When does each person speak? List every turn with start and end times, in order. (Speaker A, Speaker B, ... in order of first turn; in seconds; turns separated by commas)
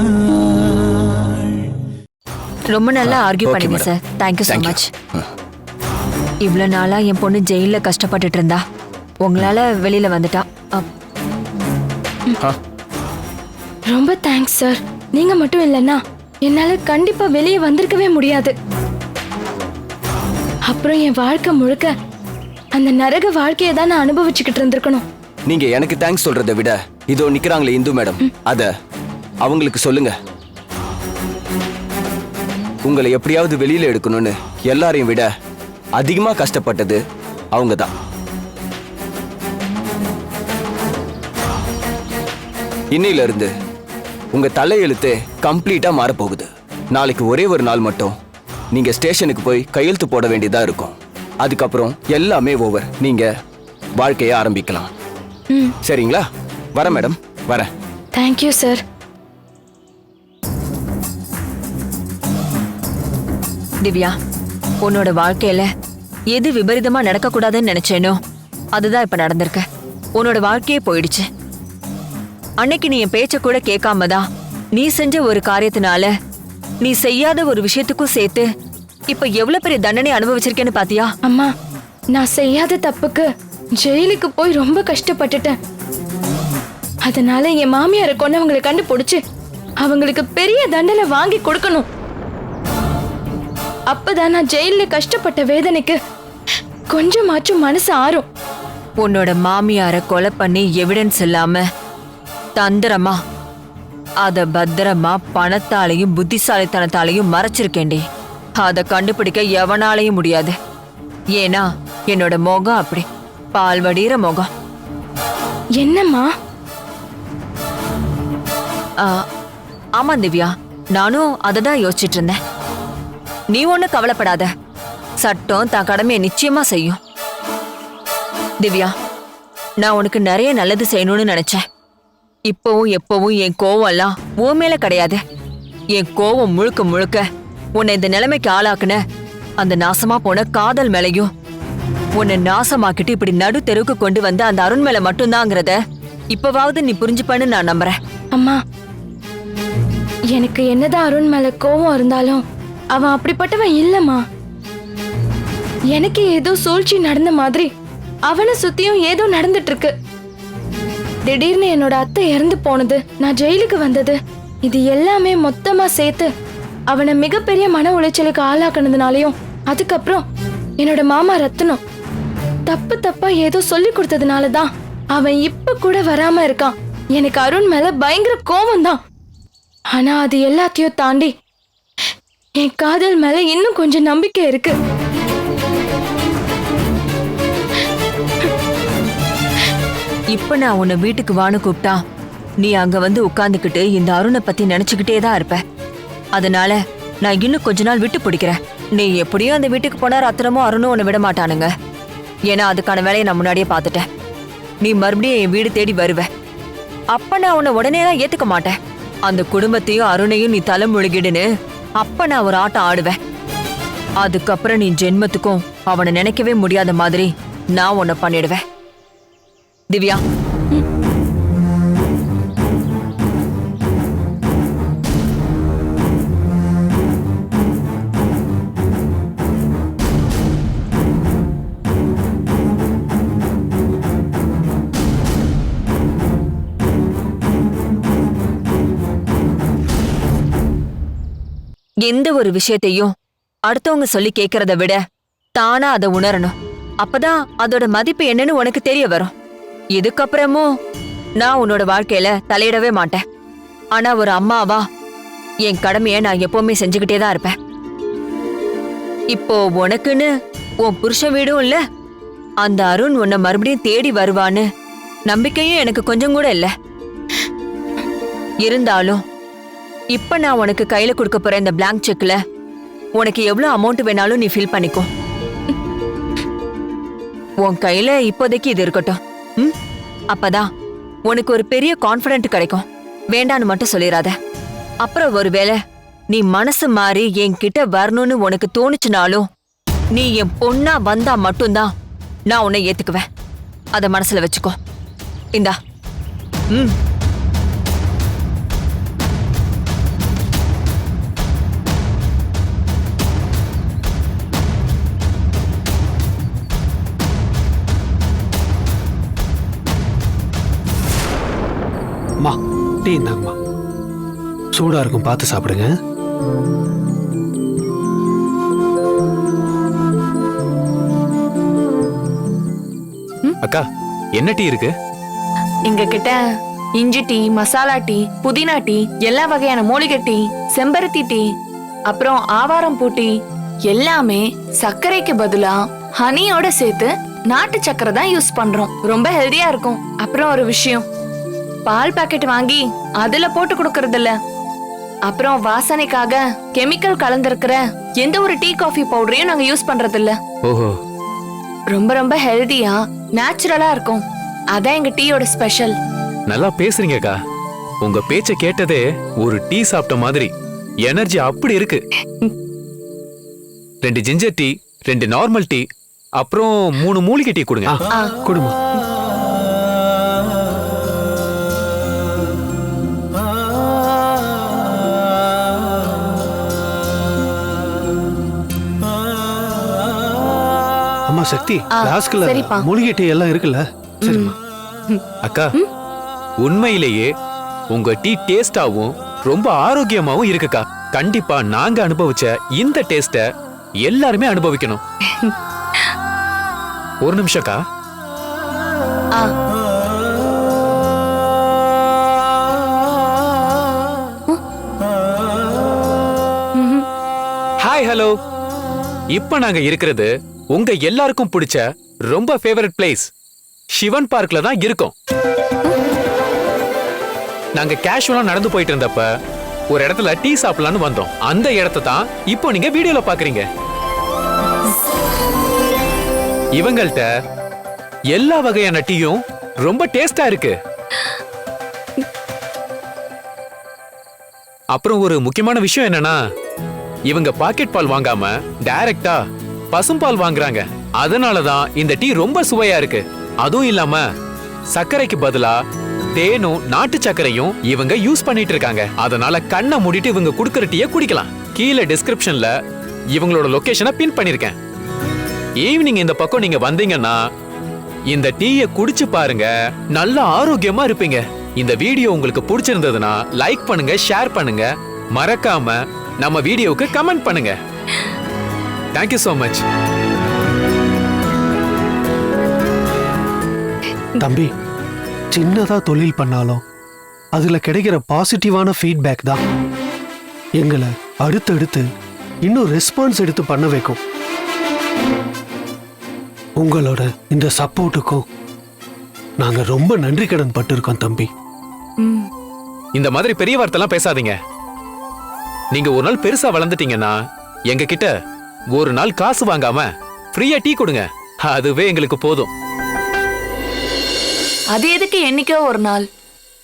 Speaker A: 2.7-4.9, Speaker B: 3.0-3.9, Speaker B: 4.5-5.3, Speaker A: 6.4-8.6, Speaker A: 9.2-10.9, Speaker C: 13.9-18.5, Speaker C: 20.7-21.9, Speaker C: 22.8-25.0, Speaker B: 25.5-28.7, Speaker B: 29.4-30.1, Speaker B: 32.8-35.3, Speaker B: 36.0-37.0, Speaker B: 37.5-37.9, Speaker B: 42.9-43.5, Speaker B: 44.3-48.1, Speaker B: 48.7-53.3, Speaker B: 54.0-54.9, Speaker B: 55.8-56.2, Speaker B: 56.7-57.7, Speaker C: 58.1-58.8, Speaker A: 63.8-64.2, Speaker A: 64.8-65.7, Speaker A: 66.3-68.2, Speaker A: 68.7-69.7, Speaker A: 70.2-71.3, Speaker A: 72.6-76.1, Speaker A: 76.8-78.5, Speaker A: 79.1-81.1, Speaker C: 81.3-81.5, Speaker C: 82.1-83.3, Speaker C: 83.8-85.6, Speaker C: 87.1-89.2, Speaker C: 89.8-91.8, Speaker C: 93.9-96.0, Speaker C: 96.9-98.2, Speaker A: 99.0-101.6, Speaker A: 102.6-103.2, Speaker A: 104.2-108.0, Speaker A: 108.6-110.5, Speaker A: 111.3-114.5, Speaker C: 115.8-116.3, Speaker A: 120.0-122.4, Speaker A: 123.5-124.5, Speaker A: 125.2-127.0, Speaker A: 128.6-128.9, Speaker A: 129.8-131.6, Speaker A: 132.5-135.2, Speaker A: 135.9-137.2, Speaker A: 137.8-139.0, Speaker A: 139.6-141.3, Speaker A: 142.2-145.8, Speaker A: 146.3-147.9, Speaker C: 148.3-148.6, Speaker C: 150.3-154.2, Speaker C: 155.9-157.7, Speaker C: 158.3-159.9, Speaker C: 161.2-166.3, Speaker C: 166.9-170.2, Speaker C: 170.8-171.8, Speaker C: 172.7-179.0, Speaker C: 179.9-181.3, Speaker C: 182.6-184.7, Speaker A: 190.3-192.0, Speaker A: 192.6-195.6, Speaker A: 196.3-201.7, Speaker A: 202.5-204.1, Speaker A: 204.8-206.3, Speaker A: 207.1-211.5, Speaker A: 212.0-213.2, Speaker A: 214.2-218.6, Speaker A: 219.9-220.2, Speaker A: 242.0-243.1, Speaker A: 243.7-245.0, Speaker A: 245.6-249.3, Speaker A: 249.9-250.7, Speaker A: 251.4-253.2, Speaker A: 253.9-254.8, Speaker A: 255.6-257.5, Speaker A: 259.3-260.3, Speaker A: 260.8-261.8, Speaker A: 262.6-264.6, Speaker A: 265.3-266.7, Speaker A: 268.6-269.2, Speaker A: 270.1-272.4, Speaker A: 273.2-275.1, Speaker A: 277.6-279.7, Speaker A: 280.3-280.7, Speaker A: 281.3-284.3, Speaker A: 285.0-285.8, Speaker A: 286.3-289.4, Speaker A: 290.1-291.9, Speaker A: 292.5-293.2, Speaker A: 293.9-294.8, Speaker D: 312.4-313.5, Speaker D: 314.7-315.9, Speaker E: 324.4-324.9, Speaker F: 325.9-326.4, Speaker F: 327.0-331.4, Speaker F: 332.1-333.3, Speaker F: 333.9-341.0, Speaker F: 341.9-344.3, Speaker F: 345.3-350.4, Speaker E: 350.6-350.9, Speaker F: 351.9-354.2, Speaker F: 354.7-355.9, Speaker E: 356.5-357.4, Speaker E: 358.0-360.5, Speaker E: 361.0-362.0, Speaker E: 364.0-365.8, Speaker E: 366.4-367.9, Speaker D: 367.9-368.8, Speaker D: 381.3-384.5, Speaker F: 382.0-382.8, Speaker F: 384.2-384.5, Speaker E: 385.4-385.7, Speaker E: 386.6-387.3, Speaker E: 387.9-393.4, Speaker E: 394.0-395.0, Speaker E: 397.2-397.8, Speaker F: 406.8-407.0, Speaker E: 407.8-408.3, Speaker E: 409.3-413.3, Speaker E: 413.9-415.1, Speaker E: 417.8-419.3, Speaker E: 419.9-423.6, Speaker E: 426.8-427.3, Speaker E: 428.3-430.8, Speaker E: 434.9-436.4, Speaker E: 437.3-439.4, Speaker E: 439.9-444.2, Speaker E: 444.9-445.8, Speaker E: 446.3-452.7, Speaker E: 453.3-454.7, Speaker E: 455.8-457.4, Speaker E: 458.3-467.8, Speaker E: 469.1-469.8, Speaker D: 474.4-474.7, Speaker D: 475.5-476.8, Speaker D: 477.5-479.6, Speaker D: 480.8-482.1, Speaker D: 482.6-484.2, Speaker D: 486.8-488.4, Speaker D: 489.6-491.5, Speaker F: 492.2-492.5, Speaker E: 493.1-494.6, Speaker E: 495.9-497.4, Speaker E: 497.9-498.3, Speaker E: 498.9-502.7, Speaker F: 504.9-506.2